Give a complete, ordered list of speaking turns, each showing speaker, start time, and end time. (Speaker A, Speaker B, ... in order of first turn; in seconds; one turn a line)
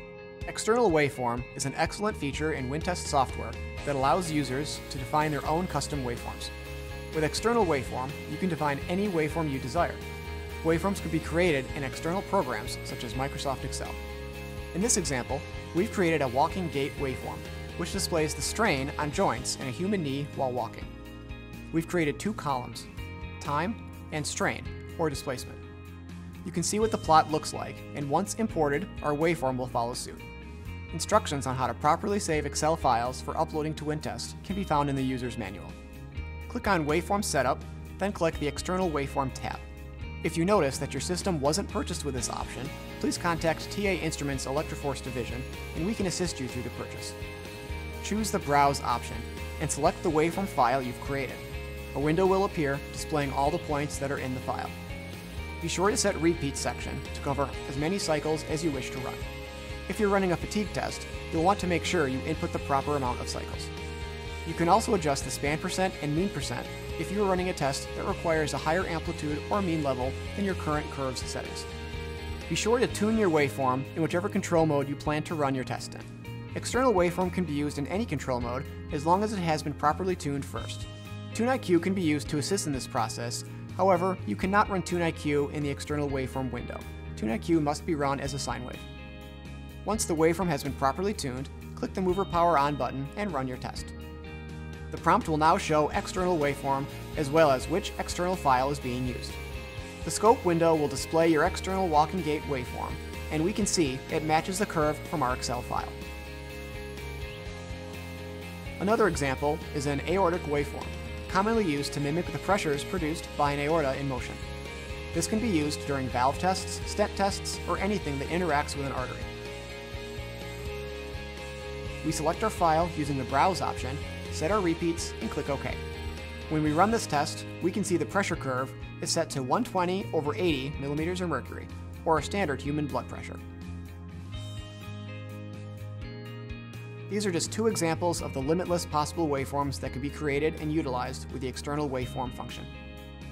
Speaker A: 0.5-6.5
Speaker A: 7.1-10.0
Speaker A: 10.6-14.0
Speaker A: 14.7-20.9
Speaker A: 21.7-25.6
Speaker A: 26.4-30.2
Speaker A: 30.9-35.8
Speaker A: 36.5-39.6
Speaker A: 40.2-47.1
Speaker A: 48.0-54.7
Speaker A: 55.6-59.2
Speaker A: 59.9-63.7
Speaker A: 64.4-71.7
Speaker A: 72.5-88.9
Speaker A: 89.8-93.9
Speaker A: 94.9-99.4
Speaker A: 100.0-106.0
Speaker A: 108.8-114.4
Speaker A: 115.1-119.3
Speaker A: 122.0-125.8
Speaker A: 126.5-133.4
Speaker A: 137.1-142.7